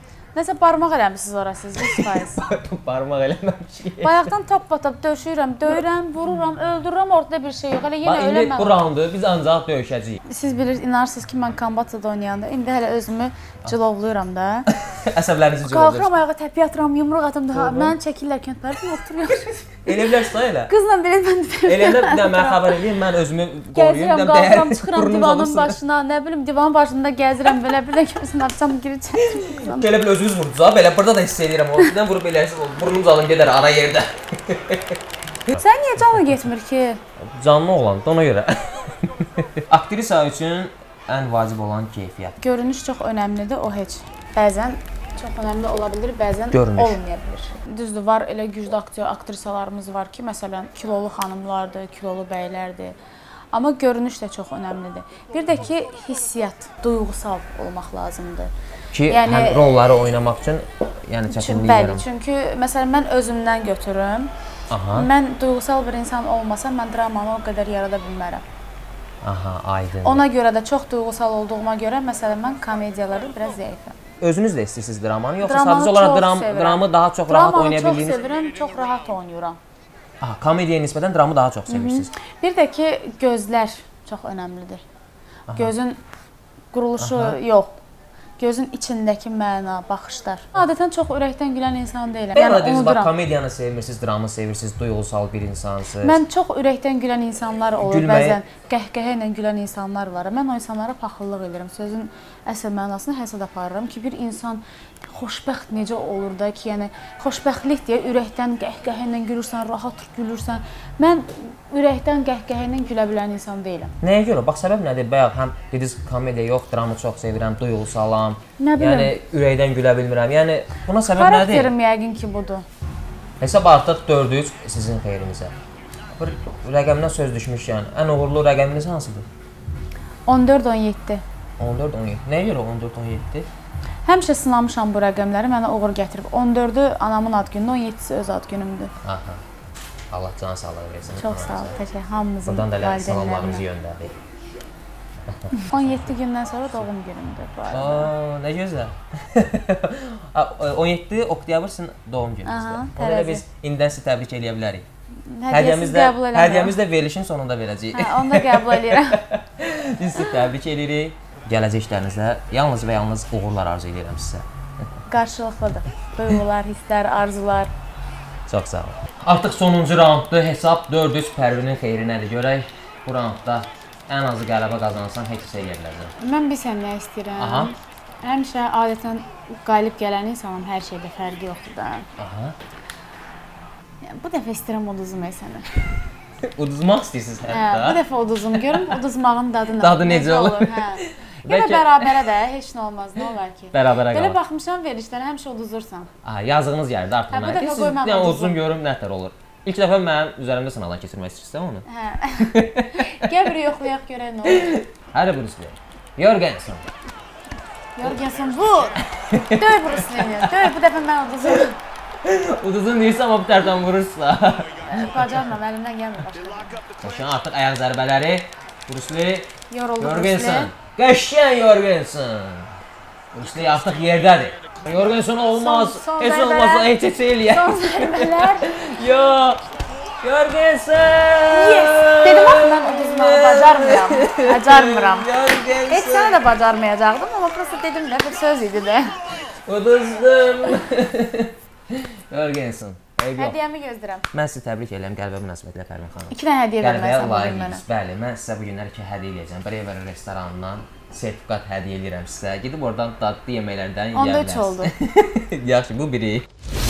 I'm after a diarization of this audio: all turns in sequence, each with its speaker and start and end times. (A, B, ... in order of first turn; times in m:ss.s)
0:00.4-0:02.4 A
0:01.8-0:04.3 B
0:04.0-0:08.8 A
0:08.0-0:10.2 B
0:10.2-0:14.7 A
0:14.7-0:16.1 B
0:15.6-0:20.1 A
0:17.5-0:18.0 B
0:19.9-0:20.7 B
0:20.6-0:22.8 A
0:21.7-0:25.8 B
0:23.7-0:29.9 A
0:29.2-0:35.0 B
0:35.5-0:37.0 A
0:37.2-0:42.4 B
0:42.4-0:53.0 A
0:46.5-0:47.0 B
0:53.5-0:58.5 A
0:58.9-1:02.0 B
0:59.1-0:59.9 A
1:01.3-1:04.3 A
1:04.7-1:05.1 B
1:04.9-1:08.4 A
1:09.2-1:10.2 B
1:10.0-1:14.0 A
1:14.2-1:18.2 B
1:15.4-1:19.6 A
1:20.2-1:22.1 B
1:21.7-1:24.8 A
1:25.6-1:26.0 A
1:26.7-1:27.8 A
1:27.0-1:27.4 B
1:28.4-1:33.1 A
1:32.4-1:36.2 B
1:36.0-1:53.9 A
1:37.8-1:38.4 B
1:54.0-2:01.7 B
1:58.6-1:59.1 A
2:01.1-2:02.6 A
2:03.4-2:05.5 B
2:06.2-2:09.3 B
2:10.3-2:11.2 A
2:11.6-2:13.5 B
2:14.0-2:18.9 A
2:19.0-2:19.4 B
2:20.1-2:21.8 B
2:21.1-2:23.6 A
2:22.5-2:24.2 B
2:25.3-2:26.1 B
2:25.5-2:28.1 A
2:27.7-2:34.9 B
2:32.4-2:33.4 A
2:35.3-2:36.8 A
2:35.5-2:44.5 B
2:37.9-2:39.2 A
2:45.1-2:47.7 A
2:48.5-2:56.1 B
2:56.2-3:02.1 A
2:57.4-2:57.7 B
3:02.2-3:02.6 B
3:04.0-3:05.7 A
3:06.4-3:08.0 B
3:07.5-3:16.1 A
3:08.7-3:09.0 B
3:09.8-3:12.2 B
3:13.7-3:14.4 B
3:16.2-3:21.8 B
3:17.3-3:18.6 A
3:21.9-3:24.8 A
3:22.4-3:23.1 B
3:24.5-3:26.9 B
3:28.0-3:31.8 A
3:29.1-3:30.6 B
3:32.2-3:35.4 B
3:34.8-3:36.9 A
3:37.0-3:39.5 B
3:39.7-3:40.7 A
3:40.0-3:42.7 B
3:43.3-3:49.6 B
3:44.9-3:46.9 A
3:47.5-3:48.7 A
3:50.2-3:56.4 B
3:51.5-3:59.2 A
3:59.5-4:03.6 B
4:03.4-4:04.3 A
4:04.3-4:16.5 B
4:06.3-4:07.8 A
4:14.1-4:14.9 A